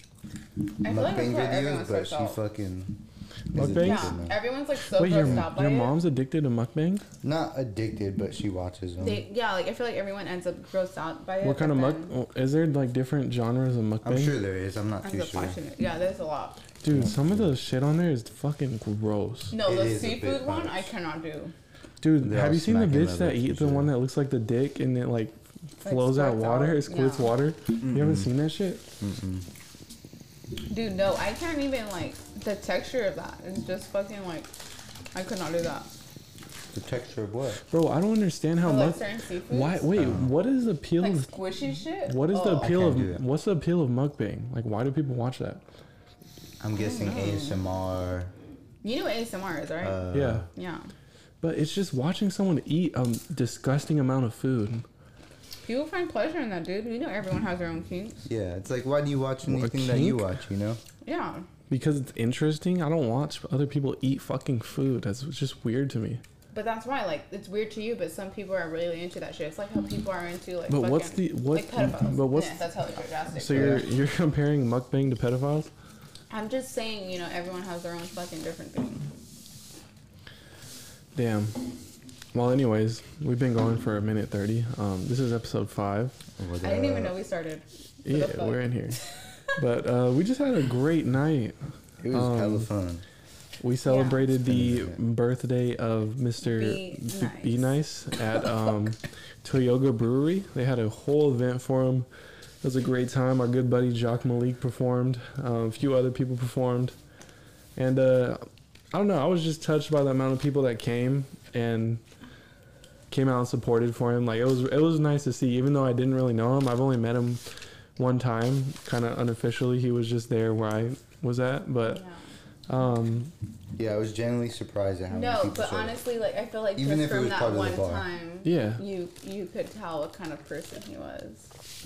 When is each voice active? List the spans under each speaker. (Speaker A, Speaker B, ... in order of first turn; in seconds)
Speaker A: 0.8-2.4, 3.6-6.0, 9.0-12.1, 15.0-16.6, 19.5-21.5, 25.8-27.4, 30.7-34.5, 35.1-35.9, 38.6-39.9, 41.0-42.8, 46.8-47.6, 48.8-50.9, 55.6-58.2, 61.0-61.5, 66.5-73.9, 76.3-79.1, 86.6-89.5, 93.8-94.2, 96.4-97.7, 121.9-122.3, 125.1-131.5
Speaker B: 0.9-3.0, 3.5-4.4, 7.2-9.2, 14.0-15.6, 16.9-17.6, 19.6-20.9, 22.2-23.9, 27.8-28.3, 29.0-29.5, 36.7-37.6, 40.0-40.3, 42.6-43.2, 46.6-48.3, 49.8-50.5, 58.3-60.8, 73.5-73.8, 86.4-87.2, 92.0-93.0, 94.4-95.0, 123.8-126.0, 126.8-128.1
Speaker C: 3.5-4.2, 4.9-7.0, 11.4-14.4, 16.8-19.6, 22.0-28.8, 37.7-41.3, 42.1-45.6, 50.1-50.5, 51.4-54.9, 59.4-60.3, 61.7-66.2, 70.7-72.6, 73.3-75.7, 81.2-81.8, 82.3-86.2, 88.0-89.0, 89.6-91.6, 92.1-92.7, 93.6-102.1, 102.6-107.0, 107.8-112.0, 113.1-117.4, 118.0-122.0, 122.7-123.3, 128.4-128.8